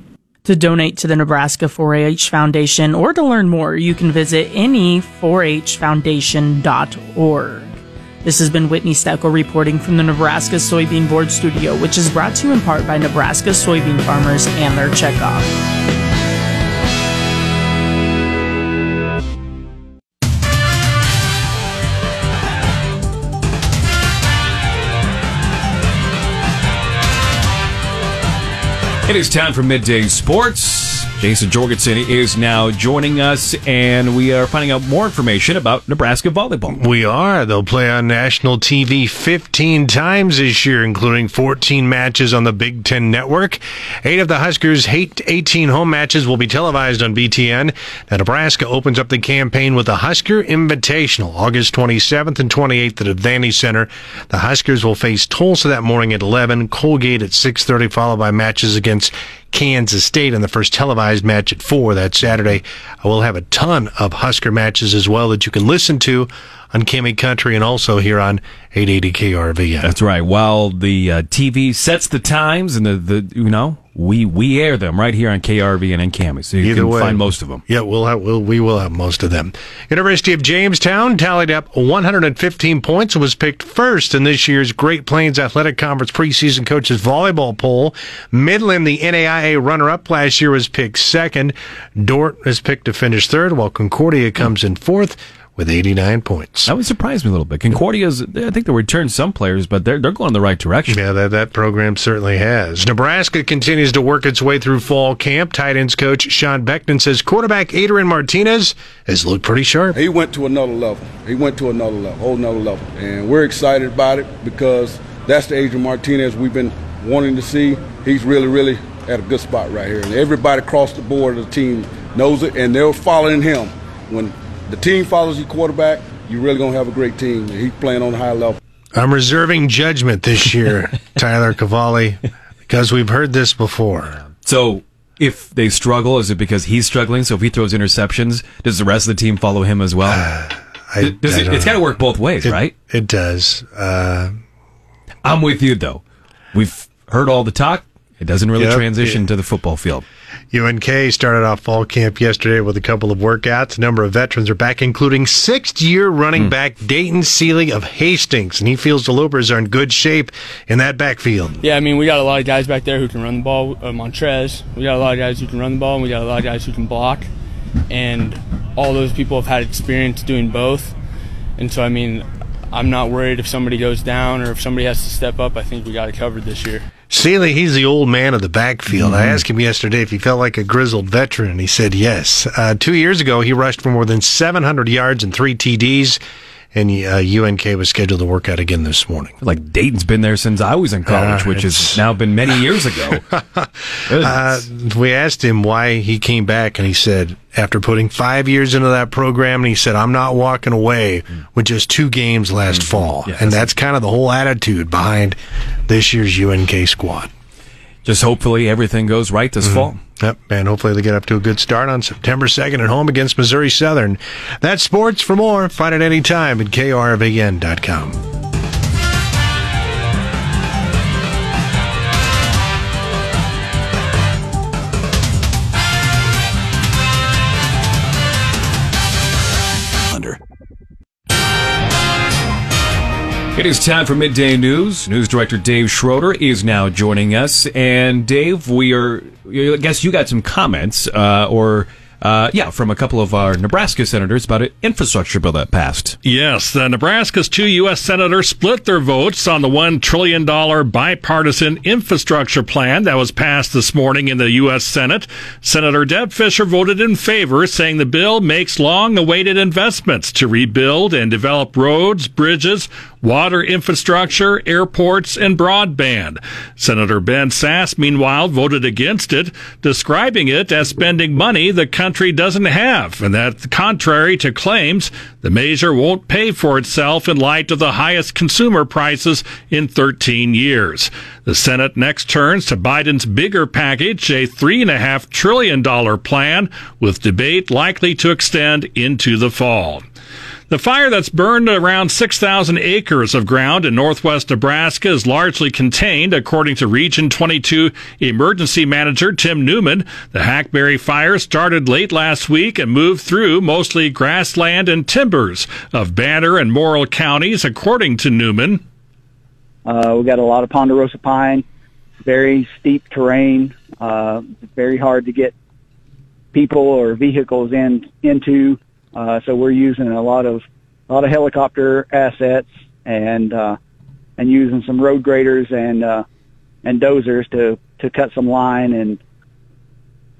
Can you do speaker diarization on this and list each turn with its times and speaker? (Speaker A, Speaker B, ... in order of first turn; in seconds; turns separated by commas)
Speaker A: 0.4-15.5, Speaker B: 29.1-36.8, Speaker C: 36.7-69.9, Speaker B: 69.8-77.6, Speaker C: 76.6-96.7, Speaker B: 96.6-101.0, Speaker C: 100.9-110.0, Speaker D: 109.9-128.6, Speaker C: 128.9-134.2, Speaker B: 134.3-140.2, Speaker C: 140.0-144.3, Speaker B: 141.0-142.7, Speaker B: 145.2-146.0, Speaker B: 146.5-150.0, Speaker C: 148.6-149.2, Speaker C: 150.5-161.6, Speaker E: 161.6-167.3, Speaker E: 167.9-170.9, Speaker E: 171.6-176.8, Speaker C: 177.1-186.2, Speaker B: 178.9-179.4, Speaker C: 186.7-189.3, Speaker B: 189.4-193.2, Speaker C: 191.1-207.3, Speaker B: 194.1-194.6, Speaker B: 202.7-203.7, Speaker B: 208.0-210.0, Speaker C: 209.6-218.2, Speaker B: 230.1-230.4, Speaker B: 233.5-246.2, Speaker F: 246.2-290.0, Speaker F: 290.7-308.8, Speaker G: 309.8-311.6, Speaker G: 312.2-315.5, Speaker G: 316.5-323.8, Speaker G: 324.4-326.2, Speaker G: 326.8-329.2